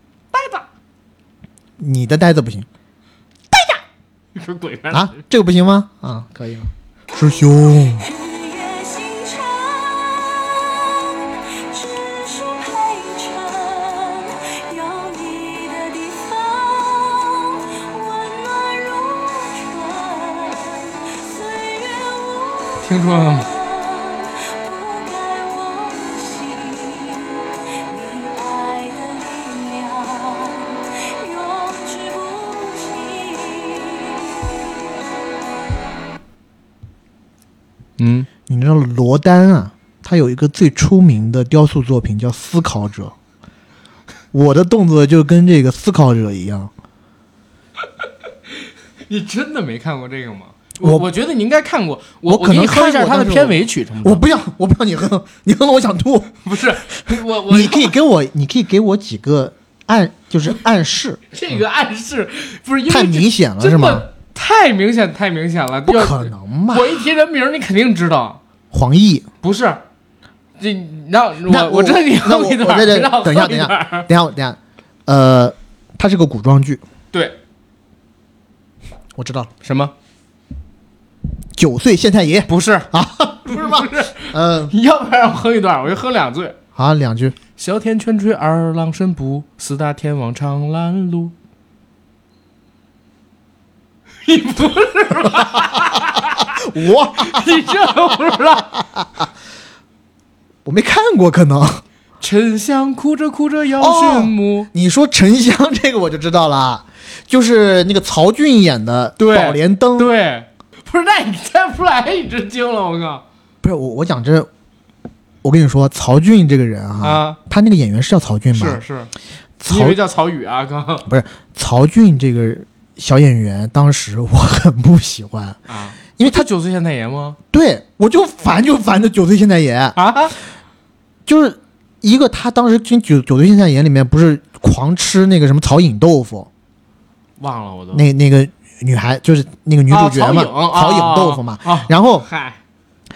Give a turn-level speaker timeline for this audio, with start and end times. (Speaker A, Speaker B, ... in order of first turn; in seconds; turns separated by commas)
Speaker A: 0.3-0.7, Speaker B: 1.8-2.6, Speaker A: 3.5-3.8, Speaker A: 4.3-5.2, Speaker B: 4.9-8.1, Speaker C: 7.9-34.9, Speaker A: 22.8-23.5, Speaker A: 38.0-38.3, Speaker B: 38.5-43.1, Speaker B: 44.3-46.7, Speaker A: 49.1-54.2, Speaker B: 52.3-56.4, Speaker A: 56.4-57.9, Speaker B: 57.5-61.2, Speaker A: 61.3-68.4, Speaker B: 62.9-64.0, Speaker B: 65.8-67.0, Speaker B: 68.7-69.3, Speaker A: 69.4-69.8, Speaker A: 70.6-74.1, Speaker B: 71.5-76.8, Speaker B: 79.1-79.5, Speaker A: 79.6-79.9, Speaker B: 81.5-84.7, Speaker A: 82.5-82.9, Speaker A: 83.5-86.6, Speaker B: 86.8-87.4, Speaker A: 87.5-91.3, Speaker A: 94.2-96.5, Speaker B: 96.4-99.2, Speaker A: 97.2-98.8, Speaker B: 100.6-101.8, Speaker A: 102.2-104.7, Speaker B: 103.8-110.1, Speaker A: 109.2-113.2, Speaker B: 113.6-114.5, Speaker B: 115.4-118.8, Speaker A: 117.0-117.4, Speaker A: 118.5-119.1, Speaker B: 119.6-120.0, Speaker A: 119.7-121.1, Speaker B: 121.0-125.6, Speaker A: 125.7-127.4, Speaker B: 126.2-126.5, Speaker B: 127.5-130.0, Speaker A: 129.9-130.3, Speaker B: 131.2-136.5, Speaker A: 137.4-138.1, Speaker B: 137.9-142.2, Speaker A: 139.9-142.6